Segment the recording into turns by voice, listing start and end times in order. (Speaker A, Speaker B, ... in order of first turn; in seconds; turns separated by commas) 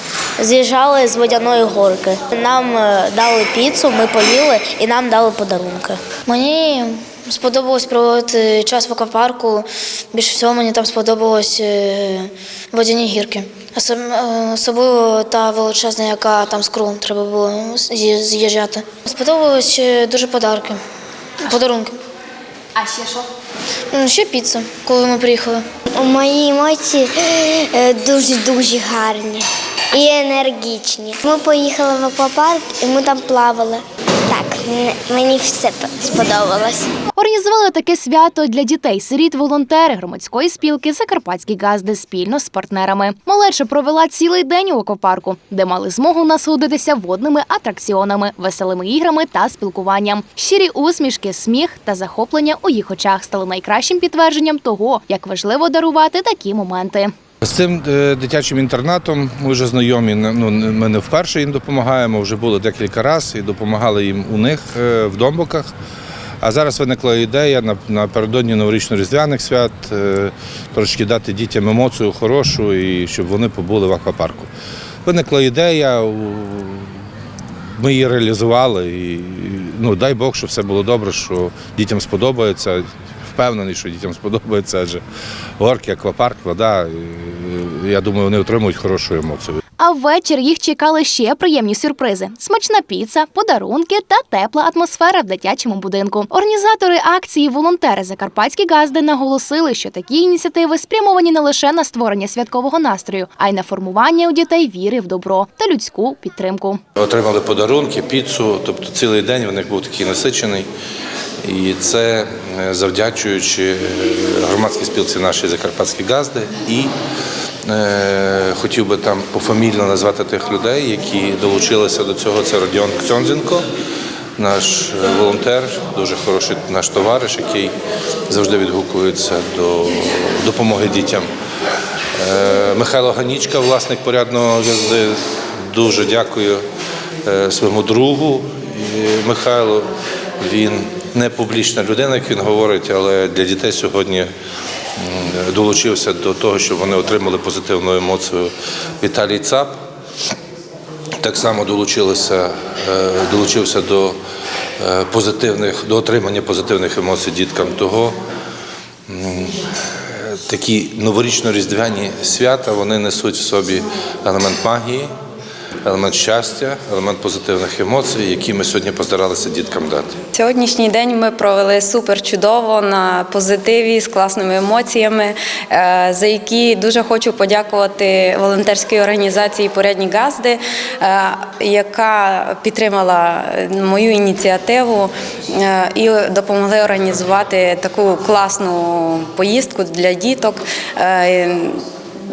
Speaker A: 0.4-6.0, Speaker B: 6.3-20.8, Speaker B: 21.4-22.0, Speaker C: 22.8-23.2, Speaker B: 23.9-25.6, Speaker D: 25.9-36.9, Speaker C: 37.1-57.1, Speaker E: 57.4-65.7, Speaker E: 66.4-74.5, Speaker E: 75.0-77.0, Speaker E: 77.7-85.0, Speaker E: 85.6-89.6, Speaker C: 89.8-106.8, Speaker E: 107.0-110.7, Speaker E: 111.4-116.9, Speaker E: 117.6-123.7, Speaker E: 124.4-127.7, Speaker E: 128.3-131.3, Speaker E: 132.2-136.6, Speaker E: 137.2-144.3, Speaker E: 145.0-149.7, Speaker E: 151.2-154.2, Speaker E: 154.8-158.2, Speaker E: 159.1-165.1, Speaker E: 165.8-170.2, Speaker F: 170.3-191.8